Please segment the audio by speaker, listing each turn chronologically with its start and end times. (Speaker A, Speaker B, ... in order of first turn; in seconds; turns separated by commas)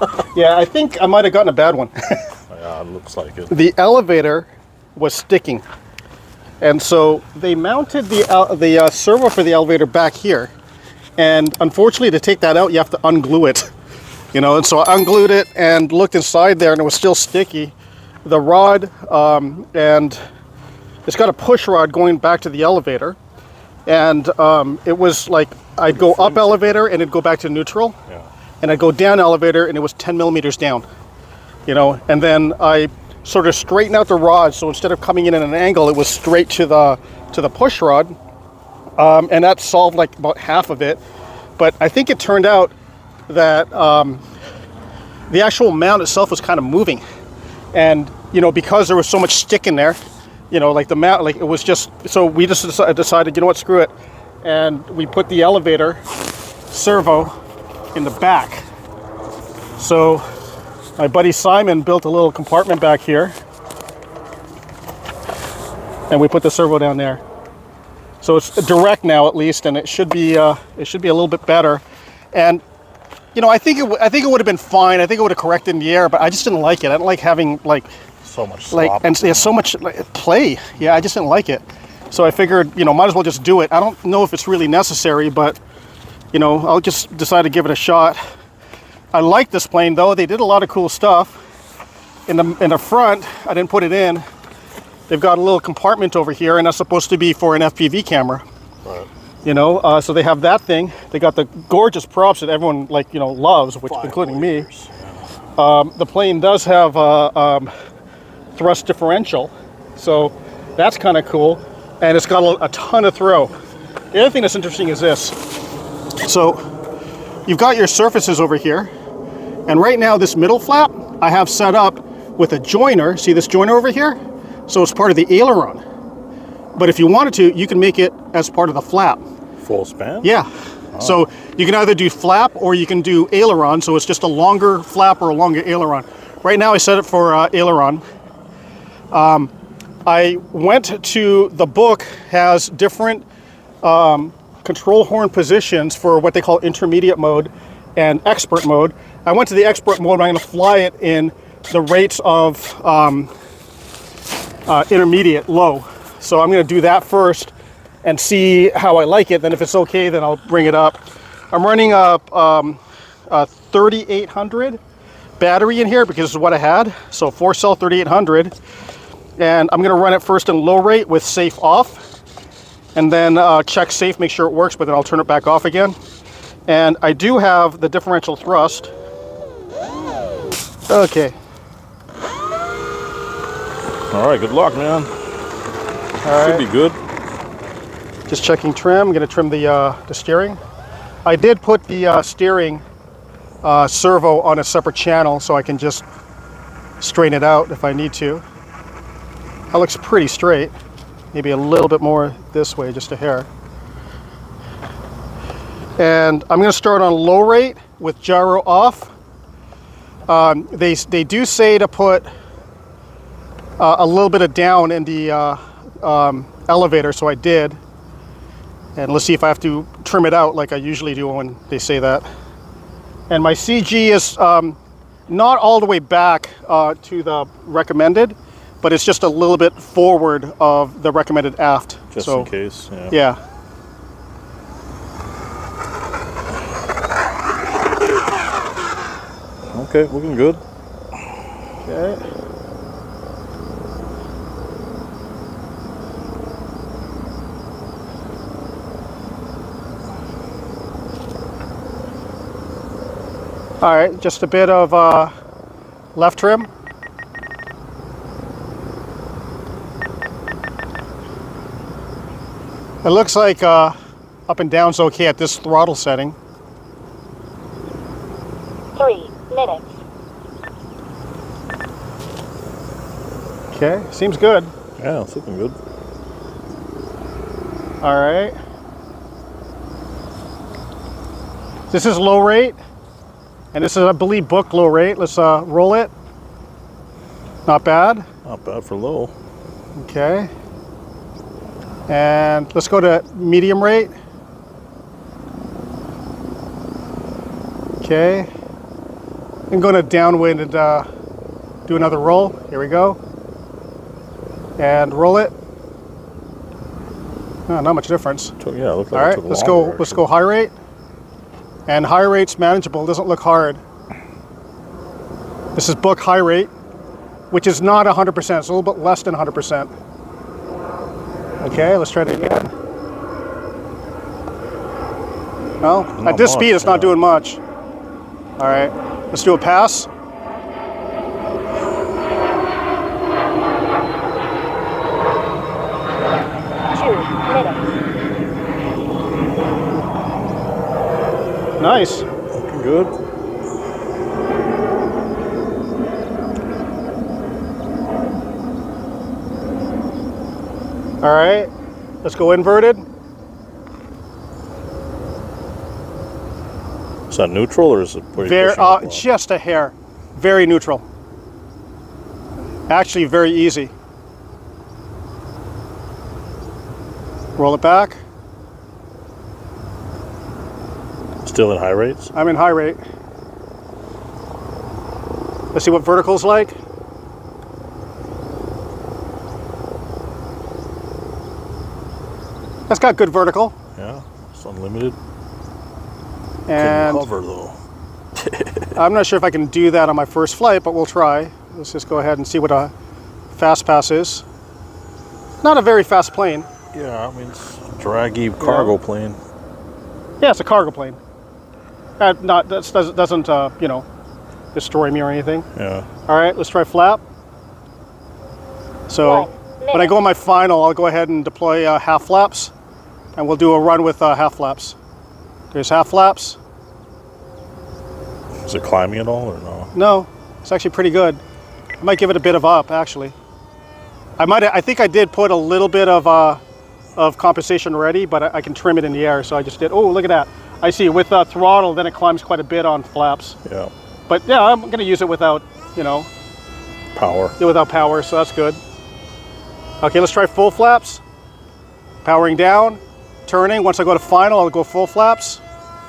Speaker A: 0.3-2.3, Speaker B: 2.5-3.6, Speaker A: 3.5-5.7, Speaker A: 6.6-10.5, Speaker A: 11.2-13.7, Speaker A: 14.3-17.7, Speaker A: 18.2-20.2, Speaker A: 21.1-23.2, Speaker A: 23.9-28.0, Speaker B: 25.9-26.7, Speaker A: 28.6-30.9, Speaker A: 31.7-38.1, Speaker A: 39.0-41.0, Speaker A: 41.6-42.7, Speaker A: 43.3-44.2, Speaker A: 45.3-47.0, Speaker A: 47.7-50.0, Speaker A: 50.5-56.0, Speaker A: 56.7-57.4, Speaker A: 57.9-58.6, Speaker A: 59.8-60.2, Speaker A: 61.0-63.4, Speaker A: 66.1-67.2, Speaker A: 68.2-72.6, Speaker A: 73.3-77.9, Speaker B: 78.2-79.6, Speaker A: 78.7-85.6, Speaker A: 86.3-88.2, Speaker A: 89.1-91.4, Speaker A: 92.3-94.2, Speaker A: 95.1-98.4, Speaker A: 99.4-104.7, Speaker B: 103.9-105.2, Speaker A: 105.6-107.7, Speaker A: 108.5-113.5, Speaker A: 114.1-115.4, Speaker A: 116.2-116.6, Speaker A: 117.5-118.9, Speaker A: 119.7-125.8, Speaker A: 126.8-129.2, Speaker B: 129.6-130.3, Speaker A: 130.2-138.0, Speaker B: 130.9-131.2, Speaker A: 139.1-139.5, Speaker A: 140.1-143.3, Speaker A: 143.8-153.3, Speaker A: 154.7-157.5, Speaker A: 158.0-164.8, Speaker A: 165.4-168.5, Speaker A: 169.4-172.0, Speaker A: 172.9-176.0, Speaker A: 176.7-178.9, Speaker A: 180.9-181.4, Speaker B: 184.1-185.1, Speaker A: 186.2-186.6, Speaker B: 186.4-187.0, Speaker A: 188.3-190.6, Speaker A: 191.2-192.8, Speaker A: 193.6-196.1, Speaker A: 197.0-198.4, Speaker A: 199.7-200.7, Speaker A: 201.3-203.5, Speaker A: 206.0-209.1, Speaker A: 210.3-212.3, Speaker A: 213.8-217.8, Speaker A: 219.0-222.3, Speaker A: 223.3-232.5, Speaker B: 232.1-233.2, Speaker A: 233.1-233.4, Speaker B: 239.7-240.6, Speaker A: 241.8-242.2, Speaker A: 253.8-255.3, Speaker A: 256.1-256.7, Speaker A: 263.0-263.9, Speaker A: 264.5-266.4, Speaker C: 269.0-269.9, Speaker A: 273.7-274.7, Speaker B: 275.0-275.8, Speaker A: 278.0-278.6, Speaker A: 281.9-282.8, Speaker A: 283.7-286.1, Speaker A: 287.7-288.2, Speaker B: 288.4-289.3, Speaker A: 290.0-290.5, Speaker A: 292.1-294.1, Speaker A: 298.0-298.5, Speaker A: 299.7-301.1, Speaker A: 301.9-303.2, Speaker A: 304.8-305.5, Speaker A: 307.7-308.6, Speaker B: 308.6-310.2, Speaker A: 309.1-310.7, Speaker A: 311.9-313.8, Speaker A: 315.8-316.7, Speaker A: 317.5-319.9, Speaker A: 321.6-322.7, Speaker A: 325.8-327.6, Speaker B: 326.2-327.2, Speaker A: 328.6-330.1, Speaker C: 336.9-337.9, Speaker A: 341.8-342.3, Speaker B: 342.5-343.1, Speaker A: 351.2-351.7, Speaker A: 352.2-353.0, Speaker B: 357.3-359.2, Speaker A: 358.4-361.1, Speaker A: 362.9-363.9, Speaker A: 367.6-368.2, Speaker B: 371.4-372.3, Speaker A: 372.3-373.0, Speaker A: 375.7-376.8, Speaker A: 382.9-383.7, Speaker B: 384.0-385.2, Speaker A: 386.7-387.3, Speaker B: 386.8-387.8, Speaker B: 388.4-388.9, Speaker A: 389.0-392.9, Speaker A: 393.5-394.4, Speaker A: 395.6-396.7, Speaker B: 396.9-399.4, Speaker A: 398.6-398.9, Speaker A: 400.4-401.2, Speaker A: 402.2-404.1, Speaker A: 404.7-405.7, Speaker B: 405.8-406.1, Speaker A: 406.3-407.2, Speaker A: 409.1-412.7, Speaker C: 409.2-410.1, Speaker A: 413.4-415.0, Speaker A: 415.7-416.6, Speaker B: 418.6-419.9, Speaker A: 419.9-421.4, Speaker A: 422.0-423.4, Speaker A: 424.4-426.6, Speaker A: 427.2-433.6, Speaker B: 433.6-433.9, Speaker A: 434.3-436.3, Speaker B: 437.2-437.6, Speaker A: 437.6-438.8, Speaker A: 440.0-441.2, Speaker A: 442.2-445.6